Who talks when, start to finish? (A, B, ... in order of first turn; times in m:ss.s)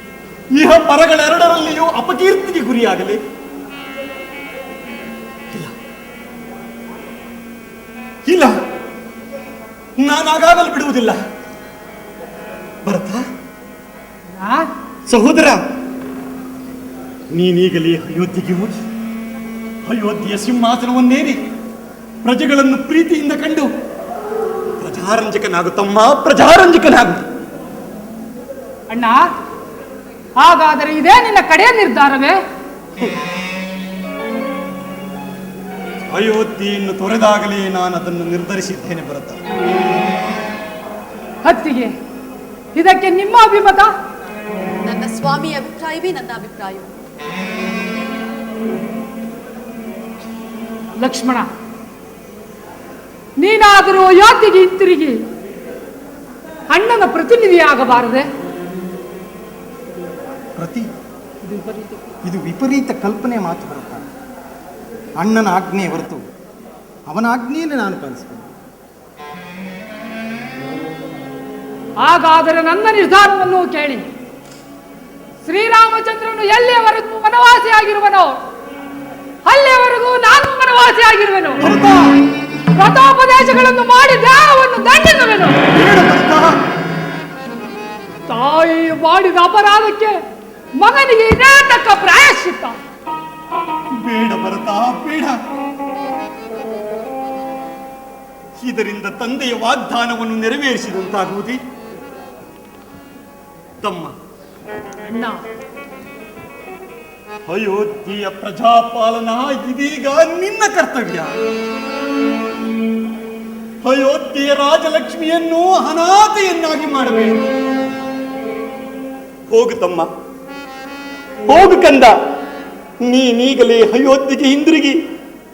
0:00.5-0:03.2 A
0:08.3-0:08.6 A
0:10.0-0:11.2 A
0:12.8-0:13.2 A
0:14.4-0:14.7 B
0:15.1-0:15.6 A
0:17.3-0:18.7 A
0:19.9-0:21.4 A
0:22.2-0:23.7 A
0:24.8-0:27.2 A
0:28.9-0:29.3 B
0:30.4-0:32.4 B
0:36.1-0:39.4 A
0:41.4-0:42.0 B
0:42.7-0:43.9 B
0:44.8-0:46.9 C
0:51.0-0:51.5 B
0:53.4-0:55.2 B
0:56.7-0:58.3 B
1:00.6-1:00.9 D
1:01.4-1:02.1 B
1:02.2-1:04.1 D
1:05.2-1:06.2 D
1:07.1-1:08.5 D
1:12.0-1:14.0 B
1:15.4-1:18.4 B
1:19.5-1:21.7 B
1:21.6-1:22.1 A
1:22.8-1:25.6 B
1:25.7-1:26.5 A
1:28.3-1:30.2 B
1:30.8-1:32.8 B
1:33.9-1:35.4 A
1:38.6-1:41.6 A
1:43.8-1:44.1 A
1:45.1-1:45.4 B
1:47.5-1:51.4 A
1:53.8-1:57.4 A
1:59.5-2:00.1 A
2:01.5-2:02.2 A
2:03.0-2:05.0 A